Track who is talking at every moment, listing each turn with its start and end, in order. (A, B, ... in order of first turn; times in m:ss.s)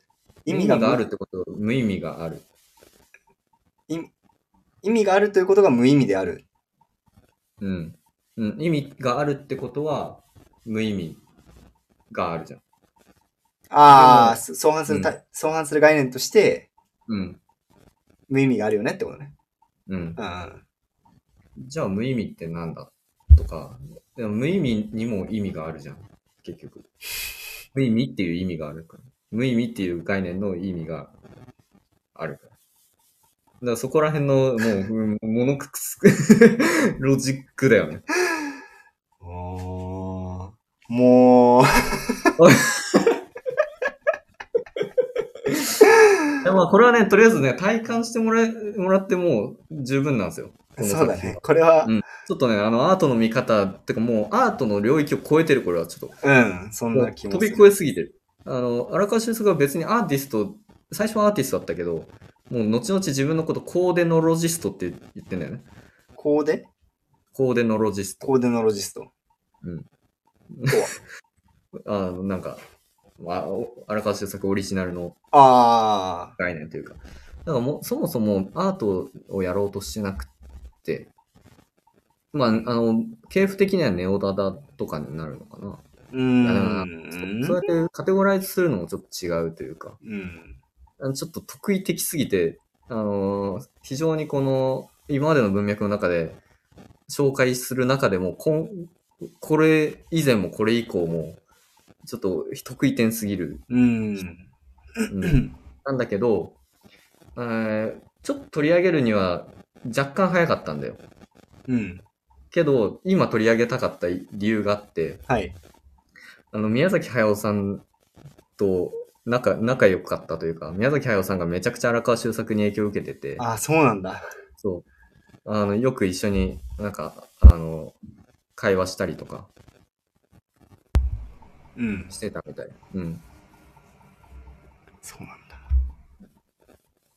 0:00.5-0:01.0 A
0:00.5-0:02.4 B
0:04.8-0:06.4 A
0:07.6-0:11.2 B
0:12.1-0:12.6 B
0:13.7-0:16.7 A
0:13.9-0:15.1 B
0:17.1-0:17.4 B
0:18.3-0:19.3 A
0:19.9-0:20.2 B
0:20.2-0:20.6 A
0:21.6-0:26.9 B
0:27.7-0:31.1 B
0:32.2-0:32.5 B
0:33.6-0:38.1 B
0:39.2-0:42.3 A
0:42.4-0:43.2 B
0:44.8-0:45.9 B
0:45.8-0:46.4 A
0:46.4-0:56.2 B
0:50.8-0:51.9 A
0:56.2-0:57.7 A
0:56.9-1:05.7 B
1:06.2-1:06.7 A
1:07.3-1:08.4 B
1:08.2-1:09.1 A
1:10.5-1:10.9 B
1:11.8-1:12.6 B
1:13.2-1:15.2 B
1:15.3-1:16.4 A
1:16.4-1:20.3 B
1:20.8-1:21.1 B
1:22.3-1:25.8 B
1:26.1-1:27.6 A
1:26.4-1:30.0 B
1:30.0-1:30.6 A
1:31.0-1:36.4 B
1:37.1-1:41.4 B
1:42.1-1:43.7 B
1:43.7-1:44.5 A
1:45.0-1:45.5 A
1:45.1-1:46.6 B
1:47.4-1:51.0 B
1:51.7-1:52.0 A
1:52.5-1:55.2 B
1:55.3-1:55.6 A
1:56.5-1:57.9 B
1:58.6-2:03.5 B
2:03.4-2:04.3 A
2:04.6-2:04.9 B
2:05.4-2:08.0 B
2:08.6-2:09.5 B
2:11.8-2:12.1 A
2:12.1-2:13.2 B
2:15.0-2:15.6 A